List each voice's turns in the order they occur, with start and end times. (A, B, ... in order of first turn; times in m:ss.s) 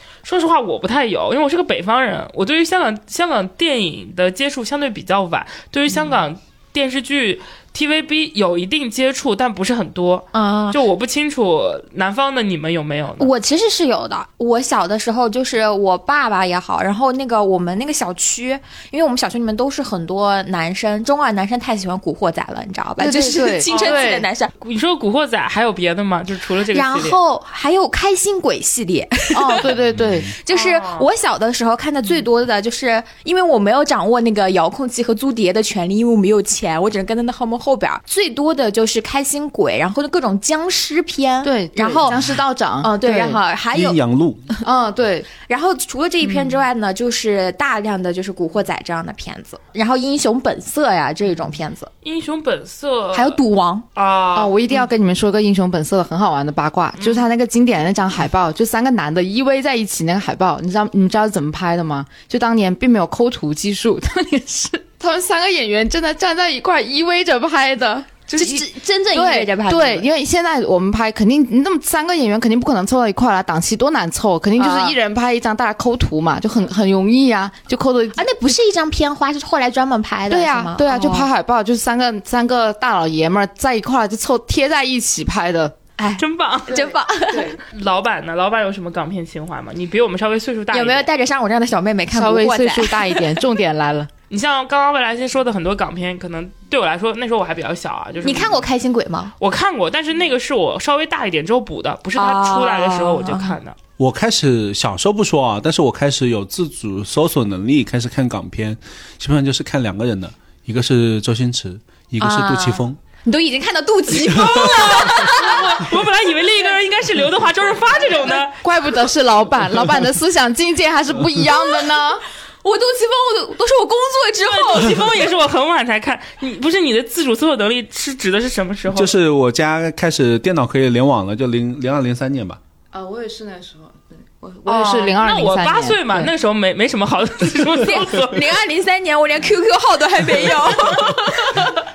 0:00.2-0:13.3 A
0:10.3-0:10.8 B
0:13.2-0:24.5 B
0:23.0-0:24.3 C
0:23.6-0:27.2 A
0:26.6-0:29.8 B
0:29.3-0:30.3 C
0:29.9-0:30.3 D
0:30.3-0:42.2 B
0:30.5-0:31.1 A
0:41.4-0:43.4 C
0:42.8-0:44.0 B
0:43.7-0:44.4 D
0:44.6-0:45.3 C
0:45.4-0:51.9 B
0:46.2-0:46.6 C
0:52.0-0:53.4 A
0:53.1-0:53.9 B
0:53.9-0:54.5 A
0:54.3-1:18.3 C
1:08.3-1:10.0 B
1:14.6-1:15.0 B
1:18.2-1:21.3 B
1:20.3-1:25.8 C
1:26.0-1:27.6 B
1:26.2-1:26.9 A
1:26.7-1:27.6 C
1:27.6-1:31.1 A
1:30.7-1:33.4 B
1:32.1-1:34.1 C
1:34.3-1:38.6 A
1:38.2-1:39.3 B
1:39.4-1:43.8 A
1:42.2-1:43.6 B
1:44.0-1:53.0 D
1:52.2-1:55.8 B
1:54.2-1:55.2 D
1:54.4-1:58.6 A
1:58.6-2:02.2 C
2:02.6-2:05.1 B
2:04.4-2:09.1 A
2:08.9-2:12.6 D
2:12.9-2:16.3 C
2:14.6-2:18.4 A
2:17.8-2:21.8 B